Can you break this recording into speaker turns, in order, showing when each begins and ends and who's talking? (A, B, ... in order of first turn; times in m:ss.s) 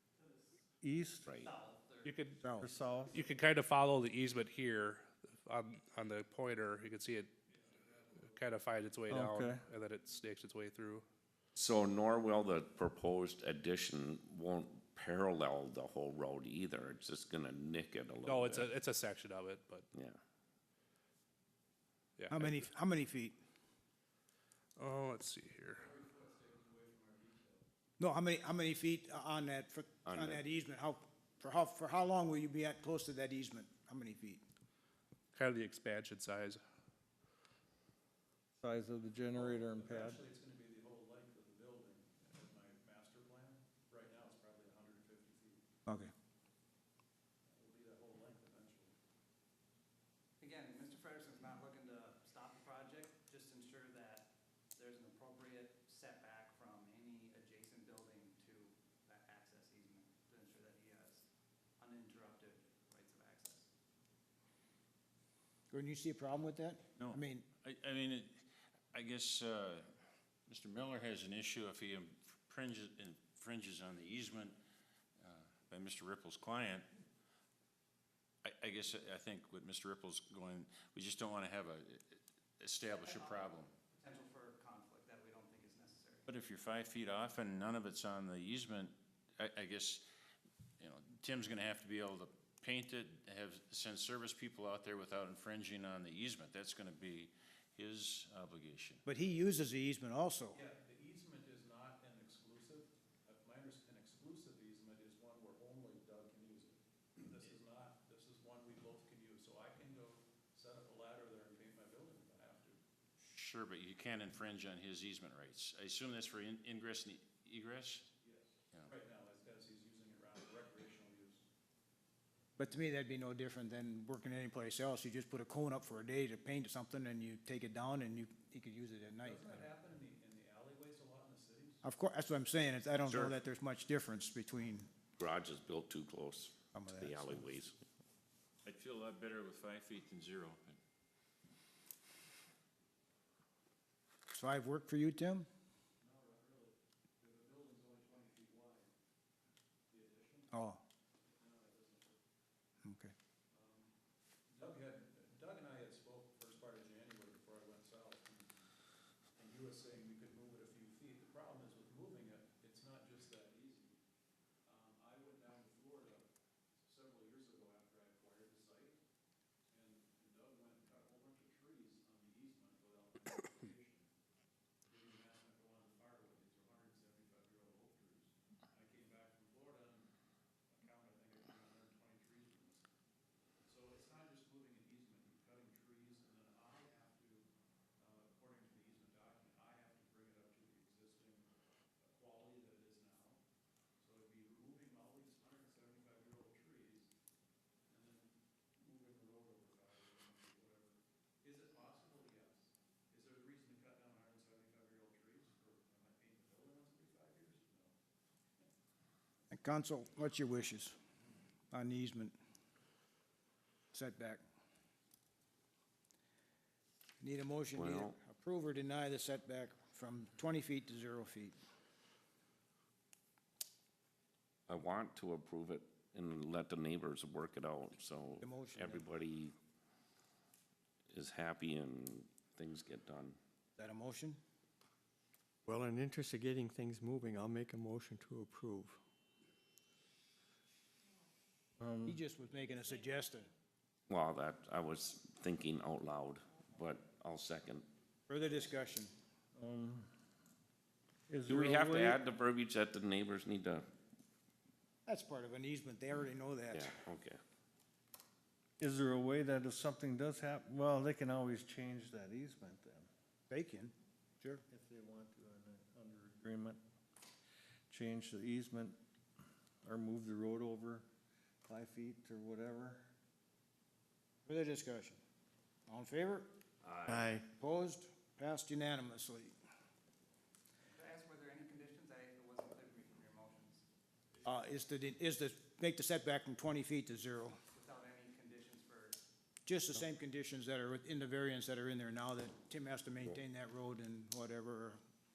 0:00.8-0:01.3 A
0:01.4-0:02.2 B
0:02.0-0:02.4 C
0:02.4-0:02.7 D
0:02.5-0:03.2 A
0:03.1-0:07.4 C
0:07.5-0:08.5 E
0:08.2-0:11.0 C
0:09.1-0:09.6 A
0:11.5-0:18.7 F
0:18.2-0:19.9 C
0:19.9-0:20.2 F
0:22.2-0:22.6 C
0:22.3-0:23.4 D
0:24.8-0:25.9 C
0:25.8-0:27.7 E
0:28.0-0:34.4 D
0:30.1-0:30.4 F
0:35.3-0:36.6 C
0:38.6-0:40.2 A
0:39.3-0:45.6 E
0:45.9-0:46.1 D
0:47.4-0:48.9 E
0:50.4-1:01.2 B
1:01.8-1:03.7 B
1:05.7-1:07.4 D
1:07.0-1:09.9 G
1:10.5-1:14.6 G
1:15.2-1:16.9 G
1:18.4-1:23.7 G
1:23.0-1:26.3 B
1:26.3-1:30.0 G
1:30.8-1:39.0 G
1:39.1-1:40.6 D
1:40.5-1:52.8 E
1:53.2-1:58.1 G
1:58.2-2:01.4 E
2:02.6-2:09.6 D
2:09.2-2:11.8 E
2:11.8-2:14.9 D
2:13.1-2:13.4 F
2:15.2-2:17.8 F
2:16.7-2:17.5 D
2:18.6-2:20.8 G
2:24.3-2:25.5 D
2:26.0-2:28.9 E
2:29.9-2:30.5 E
2:30.5-2:30.8 D
2:31.2-2:32.2 E
2:32.8-2:33.1 D
2:33.5-2:33.9 E
2:34.5-2:38.5 E
2:39.3-2:43.9 E
2:44.6-2:46.3 E
2:46.8-2:49.0 E
2:49.7-2:54.1 E
2:54.9-3:00.1 E
3:00.7-3:02.9 E
3:03.6-3:07.5 E
3:08.0-3:13.4 E
3:14.0-3:17.1 E
3:17.9-3:27.9 E
3:29.5-3:31.0 D
3:31.7-3:32.3 D
3:33.9-3:34.4 D
3:37.2-3:41.6 D
3:37.8-3:38.2 F
3:44.7-3:49.6 F
3:48.4-3:49.0 D
3:51.1-3:53.4 F
3:53.8-3:54.4 D
3:55.7-3:59.0 H
4:01.8-4:02.2 A
4:02.1-4:03.5 D
4:04.1-4:07.9 F
4:08.3-4:09.1 D
4:09.6-4:10.1 A
4:11.3-4:12.2 A
4:11.5-4:13.9 F
4:15.0-4:16.9 D
4:16.7-4:17.4 F
4:18.8-4:23.1 A
4:23.5-4:24.6 D
4:24.7-4:26.8 A
4:27.9-4:29.0 A
4:29.8-4:31.1 A
4:31.6-4:33.1 A
4:34.4-4:35.2 D
4:35.9-4:36.5 D
4:36.8-4:37.3 F
4:37.1-4:37.4 H
4:37.4-4:39.5 D
4:40.9-4:43.8 B
4:44.4-4:47.6 D
4:47.7-4:49.2 B
4:49.6-4:55.0 D